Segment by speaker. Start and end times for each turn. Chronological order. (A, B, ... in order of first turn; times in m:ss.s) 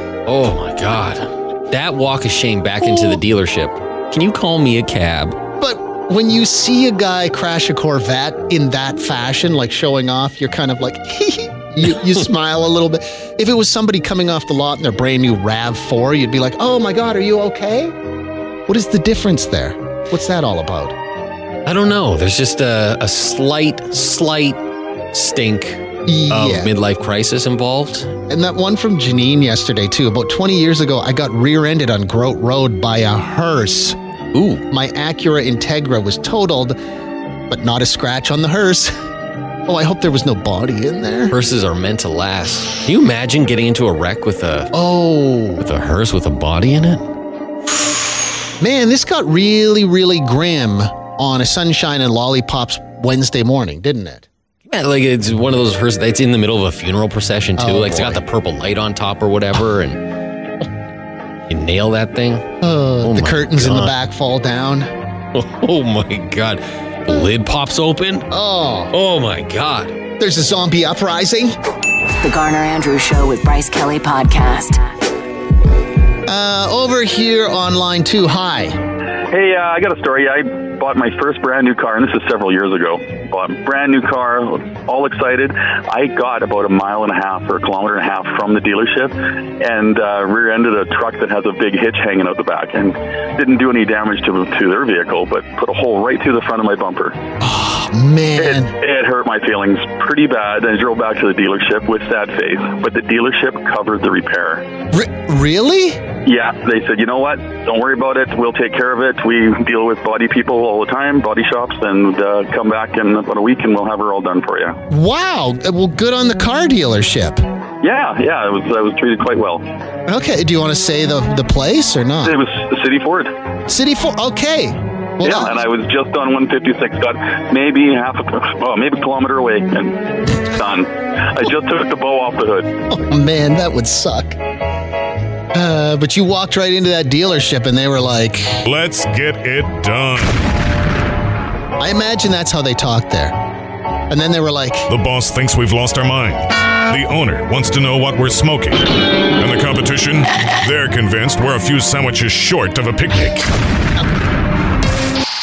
0:00.3-0:05.4 A
0:05.6-0:17.9 B
0:18.7-0:21.0 B
0:21.6-0:24.6 A
0:25.1-0:28.1 A
0:26.1-0:26.7 B
0:28.3-0:34.0 B
0:34.3-0:34.6 A
0:34.7-0:36.8 B
0:37.5-0:38.9 B
0:39.7-0:41.4 B
0:41.3-0:44.7 A
0:44.7-0:45.7 B
0:45.6-0:47.0 A
0:48.6-0:54.3 B
0:54.7-1:00.0 A
0:57.6-0:58.2 B
1:01.5-1:02.5 A
1:02.6-1:04.9 B
1:03.0-1:03.9 A
1:05.3-1:08.3 A
1:08.3-1:08.9 B
1:08.9-1:10.0 A
1:10.2-1:11.6 B
1:12.2-1:14.8 C
1:16.3-1:18.8 B
1:19.3-1:37.2 D
1:37.4-1:38.7 B
1:38.4-1:44.6 D
1:44.9-1:46.0 B
1:46.2-1:54.8 D
1:54.9-1:57.4 B
1:57.8-1:59.6 D
2:00.1-2:02.4 B
2:02.2-2:03.3 D
2:03.7-2:05.6 B
2:05.2-2:12.7 D
2:12.9-2:14.4 B
2:15.5-2:18.6 B
2:18.6-2:20.4 E
2:21.8-2:23.4 B
2:24.1-2:24.9 B
2:24.9-2:33.5 E